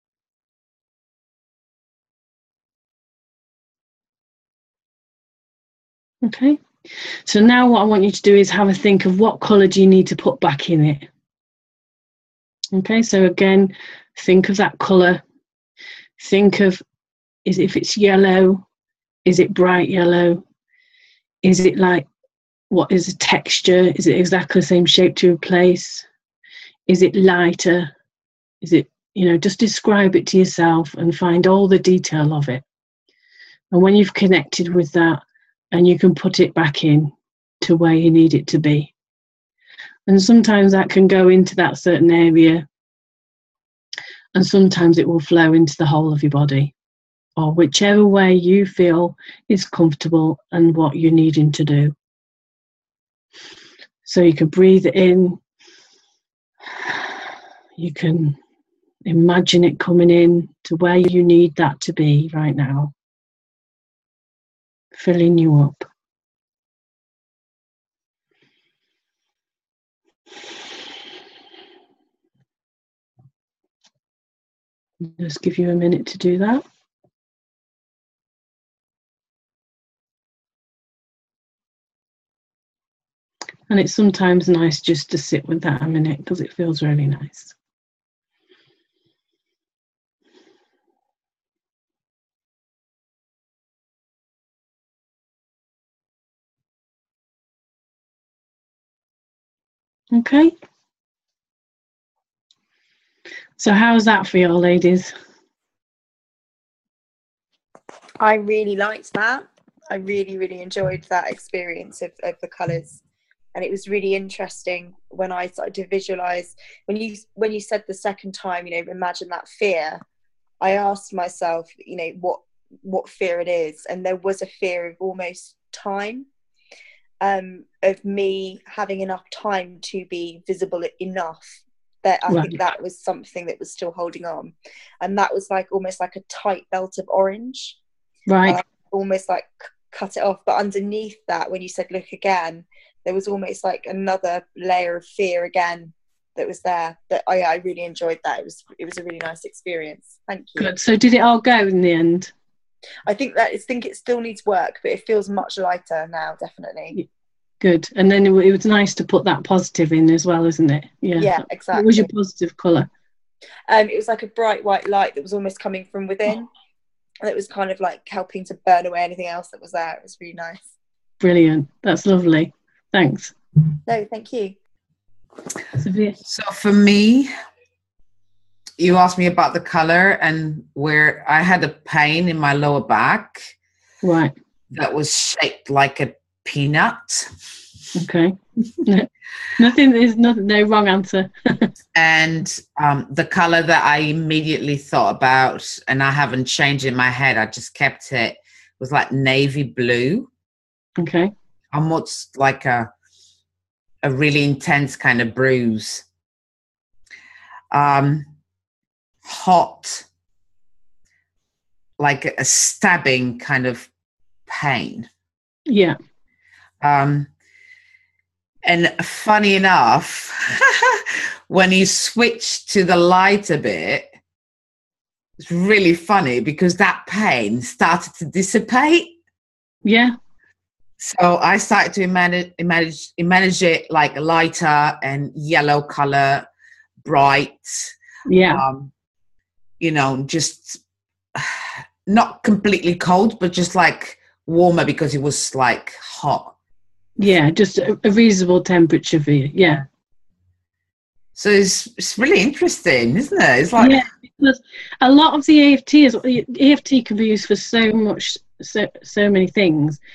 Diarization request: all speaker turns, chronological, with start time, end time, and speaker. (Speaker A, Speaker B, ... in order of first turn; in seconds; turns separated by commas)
Speaker A: 6.2-11.1, Speaker A: 12.7-15.2, Speaker A: 16.2-16.8, Speaker A: 17.4-18.6, Speaker A: 19.3-20.4, Speaker A: 21.4-22.1, Speaker A: 22.7-26.1, Speaker A: 26.9-27.9, Speaker A: 28.6-32.6, Speaker A: 33.7-35.2, Speaker A: 35.7-38.9, Speaker A: 40.1-42.7, Speaker A: 44.4-46.7, Speaker A: 47.4-52.0, Speaker A: 54.0-55.4, Speaker A: 56.7-57.1, Speaker A: 57.8-58.4, Speaker A: 59.1-62.9, Speaker A: 65.0-65.9, Speaker A: 75.0-76.6, Speaker A: 83.7-87.5, Speaker A: 100.1-100.5, Speaker A: 103.6-105.1, Speaker B: 108.2-113.0, Speaker B: 113.5-120.0, Speaker B: 120.6-126.3, Speaker B: 127.2-137.8, Speaker A: 132.3-132.6, Speaker A: 138.3-138.6, Speaker B: 138.5-150.7, Speaker A: 150.6-152.3, Speaker B: 153.1-157.0, Speaker A: 157.6-162.9, Speaker B: 161.2-162.1, Speaker B: 163.7-166.5, Speaker B: 167.2-170.7, Speaker A: 171.2-173.3, Speaker B: 173.9-174.6, Speaker A: 175.8-176.2, Speaker C: 176.3-177.3, Speaker C: 178.8-183.5, Speaker A: 184.0-184.3, Speaker C: 184.7-187.3, Speaker A: 187.9-191.7, Speaker C: 191.9-200.3, Speaker A: 201.0-201.3, Speaker C: 201.7-202.9, Speaker C: 204.0-206.0, Speaker C: 207.7-208.3, Speaker C: 209.2-210.1, Speaker C: 212.0-213.9, Speaker C: 214.5-215.1, Speaker A: 215.7-216.0, Speaker C: 216.8-217.3, Speaker C: 218.6-224.1, Speaker C: 225.4-229.1, Speaker A: 229.8-230.2, Speaker C: 231.0-236.5, Speaker C: 237.0-237.9, Speaker A: 238.3-238.6, Speaker C: 238.5-238.9, Speaker C: 239.8-240.8, Speaker C: 241.3-246.6, Speaker A: 247.2-249.8, Speaker C: 251.3-254.0, Speaker A: 253.8-260.0